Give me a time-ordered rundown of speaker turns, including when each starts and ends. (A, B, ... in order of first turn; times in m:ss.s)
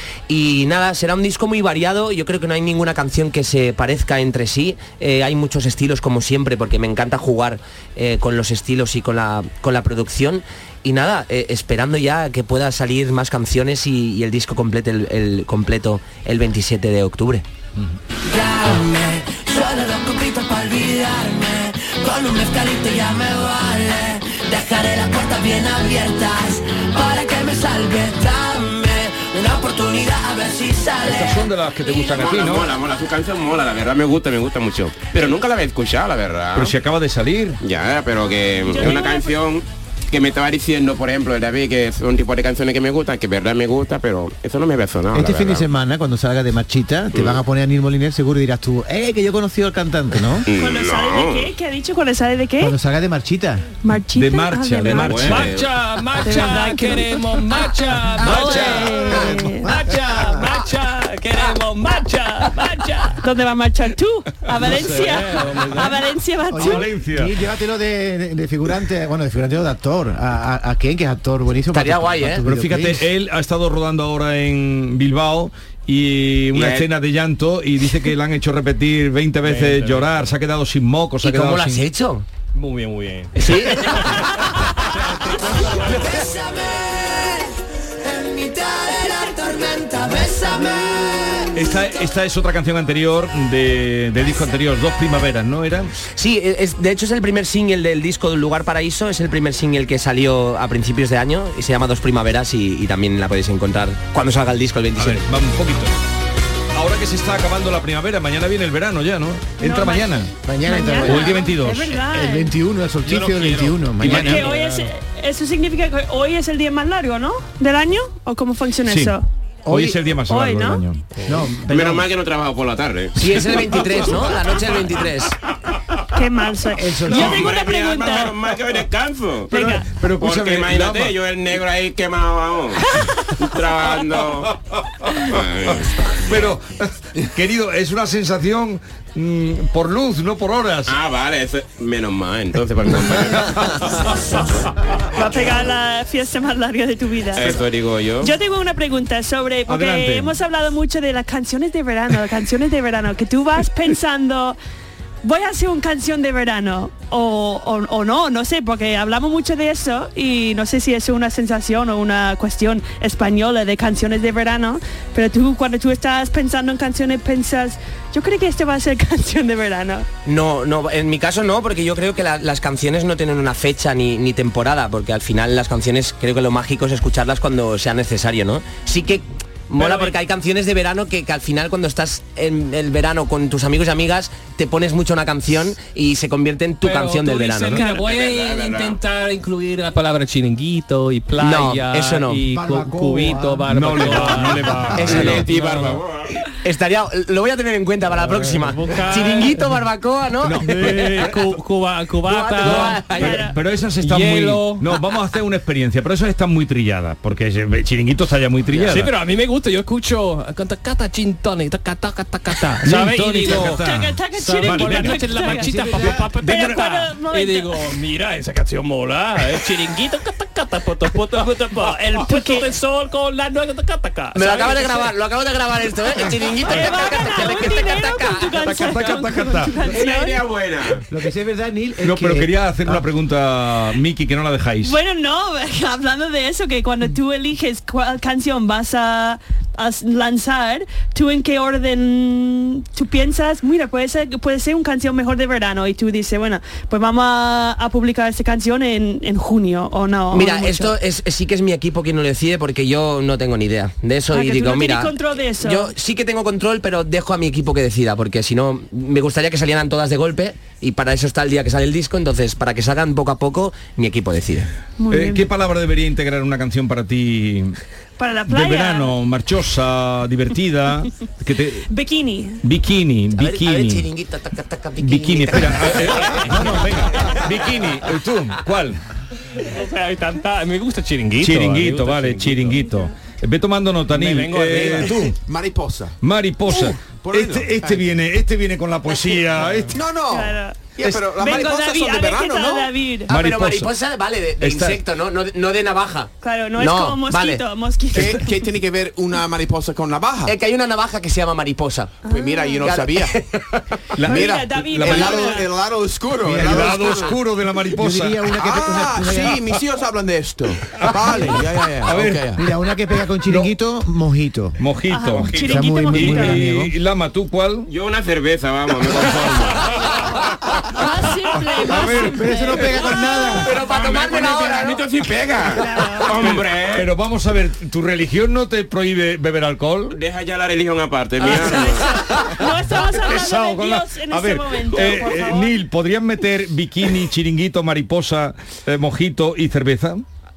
0:00.3-0:17.4 A
0:18.3-0:31.4 B
0:31.0-0:32.7 C
0:32.1-0:36.7 D
0:36.5-0:37.6 C
0:37.6-0:45.7 D
0:38.7-0:39.4 E
0:45.1-0:50.5 F
0:50.5-0:51.5 D
0:50.5-0:52.7 E
0:52.6-0:53.7 F
0:53.8-0:55.4 E
0:54.1-0:55.5 C
0:54.9-0:55.7 D
0:55.2-1:03.2 G
0:56.2-0:59.8 E
0:58.3-1:00.5 F
1:03.0-1:06.9 E
1:04.6-1:06.0 G
1:06.5-1:13.1 F
1:06.6-1:07.3 C
1:11.7-1:12.4 A
1:12.4-1:21.8 C
1:19.4-1:20.2 G
1:21.2-1:22.2 A
1:22.5-1:24.2 G
1:23.4-1:24.5 A
1:25.8-1:27.2 B
1:28.0-1:31.4 B
1:31.5-1:35.9 C
1:36.1-1:45.2 A
1:45.0-1:46.0 C
1:46.7-1:50.3 C
1:49.6-1:52.5 E
1:50.4-1:51.5 F
1:51.0-1:52.0 C
1:52.0-1:54.4 F
1:53.0-1:54.9 G
1:54.0-1:54.5 C
1:54.0-1:59.2 E
1:58.9-1:59.2 C
1:59.6-2:00.0 F
1:59.7-2:01.0 C
2:00.2-2:00.8 E
2:01.2-2:02.0 F
2:01.7-2:03.5 D
2:03.2-2:05.4 A
2:06.1-2:08.5 E
2:06.8-2:07.5 F
2:07.1-2:14.5 D
2:09.5-2:09.9 E
2:09.5-2:11.2 C
2:15.2-2:16.0 D
2:16.2-2:21.0 C
2:20.9-2:23.8 D
2:25.1-2:27.6 E
2:27.3-2:28.3 D
2:28.2-2:34.6 E
2:29.7-2:30.4 C
2:35.2-2:50.1 E
2:50.2-3:07.8 A
2:59.8-3:00.1 G
3:06.8-3:16.0 G
3:07.8-3:09.0 D
3:11.3-3:12.4 A
3:12.5-3:13.7 F
3:13.7-3:15.4 C
3:14.9-3:15.4 A
3:15.3-3:16.4 D
3:16.6-3:21.4 A
3:18.3-3:19.7 G
3:20.4-3:21.3 C
3:20.6-3:23.4 G
3:22.2-3:23.4 A
3:22.6-3:29.1 C
3:23.2-3:23.6 E
3:24.0-3:24.9 G
3:28.8-3:45.1 G
3:32.8-3:35.3 C
3:33.4-3:37.7 E
3:35.6-3:36.2 F
3:42.0-3:42.7 E
3:44.3-3:48.8 A
3:46.7-3:50.4 E
3:48.5-3:49.8 C
3:49.9-3:51.0 D
3:51.1-3:53.0 F
3:52.0-3:55.0 C
3:54.8-4:10.9 E
4:10.3-4:24.7 A
4:14.3-4:15.9 E
4:25.0-4:25.5 E
4:25.1-4:27.8 C
4:28.2-4:29.2 E
4:28.5-4:31.9 C
4:31.9-4:32.6 E
4:32.6-4:34.1 C
4:33.3-4:37.5 A
4:35.0-4:39.0 C
4:39.6-4:42.9 G
4:41.4-4:45.4 C
4:44.1-4:45.3 G
4:45.4-4:48.2 H
4:46.2-4:50.0 C
4:49.9-4:52.9 H
4:50.3-4:53.4 E
4:53.3-4:53.9 C
4:53.3-4:57.6 A
4:54.6-4:55.0 C
4:56.4-4:58.6 E
4:58.1-5:00.6 H
5:00.4-5:02.2 A
5:02.2-5:03.3 H
5:02.2-5:02.8 E
5:02.8-5:04.0 A
5:04.1-5:05.6 C
5:04.2-5:05.7 E
5:04.3-5:07.4 H
5:06.4-5:07.0 F
5:06.6-5:08.5 C
5:07.9-5:09.6 F
5:08.6-5:12.6 H
5:11.0-5:12.5 C
5:12.6-5:14.8 F
5:14.8-5:17.9 C
5:15.1-5:16.7 E
5:15.6-5:16.9 F
5:17.9-5:19.9 D
5:20.9-5:23.8 E
5:21.8-5:22.8 C
5:22.2-5:23.7 F
5:23.6-5:27.1 D
5:24.0-5:25.0 A
5:25.7-5:26.3 E
5:26.4-5:30.2 C
5:30.1-5:32.1 D
5:31.4-5:35.9 E
5:32.1-5:40.2 C